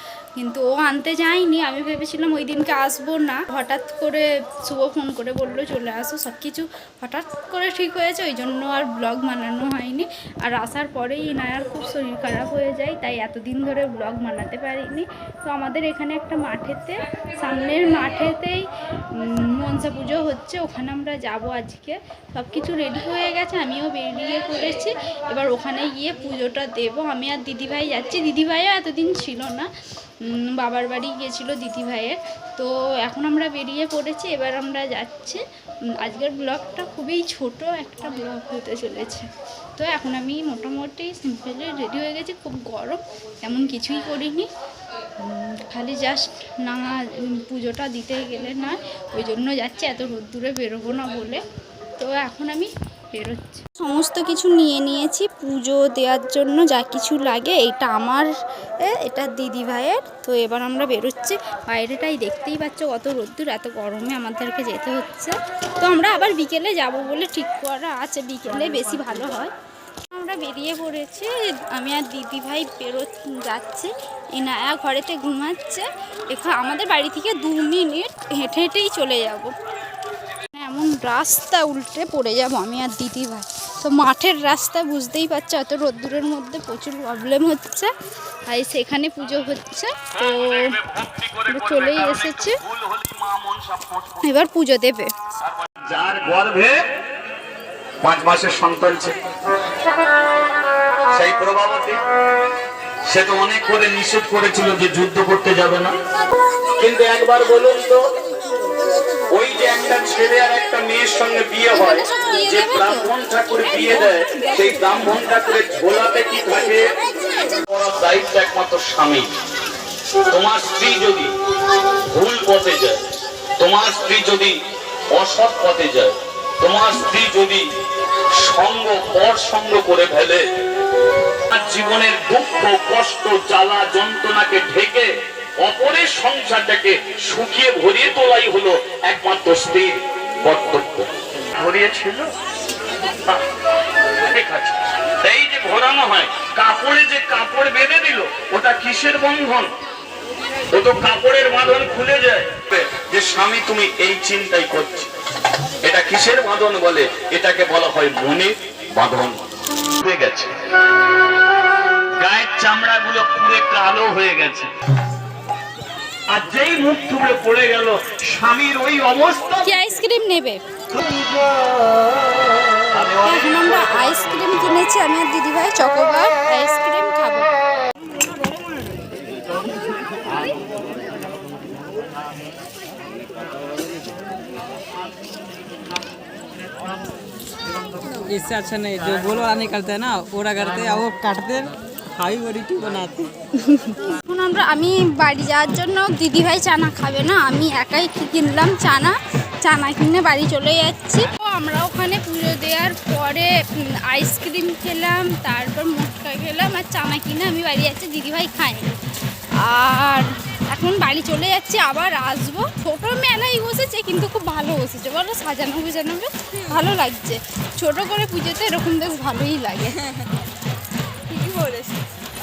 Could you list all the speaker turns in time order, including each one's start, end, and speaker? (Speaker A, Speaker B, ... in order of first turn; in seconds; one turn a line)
Speaker A: 0.4-29.7
Speaker A: 30.2-35.4
Speaker A: 36.0-44.5
Speaker A: 45.2-51.4
Speaker A: 52.0-58.3
Speaker A: 58.8-69.5
Speaker A: 70.1-79.5
Speaker A: 80.5-87.9
Speaker A: 88.5-90.8
Speaker B: 90.2-94.4
Speaker A: 91.5-92.6
Speaker A: 94.2-95.1
Speaker B: 95.4-96.8
Speaker B: 98.0-99.2
Speaker B: 101.1-102.0
Speaker B: 103.1-105.9
Speaker B: 106.8-108.0
Speaker B: 109.3-116.8
Speaker A: 111.7-113.1
Speaker A: 113.7-115.1
Speaker B: 117.7-119.3
Speaker B: 120.3-121.3
Speaker B: 122.0-123.0
Speaker B: 123.6-124.5
Speaker B: 125.1-127.6
Speaker B: 128.4-130.4
Speaker B: 131.5-142.3
Speaker B: 144.2-149.7
Speaker B: 150.7-155.1
Speaker B: 155.8-159.4
Speaker B: 160.0-160.5
Speaker B: 162.2-164.7
Speaker B: 166.3-169.7
Speaker A: 169.6-170.6
Speaker B: 172.9-174.2
Speaker A: 173.2-177.5
Speaker C: 188.0-193.3
Speaker A: 193.6-203.5
Speaker A: 204.1-209.0
Speaker A: 209.6-220.1
Speaker C: 221.3-222.0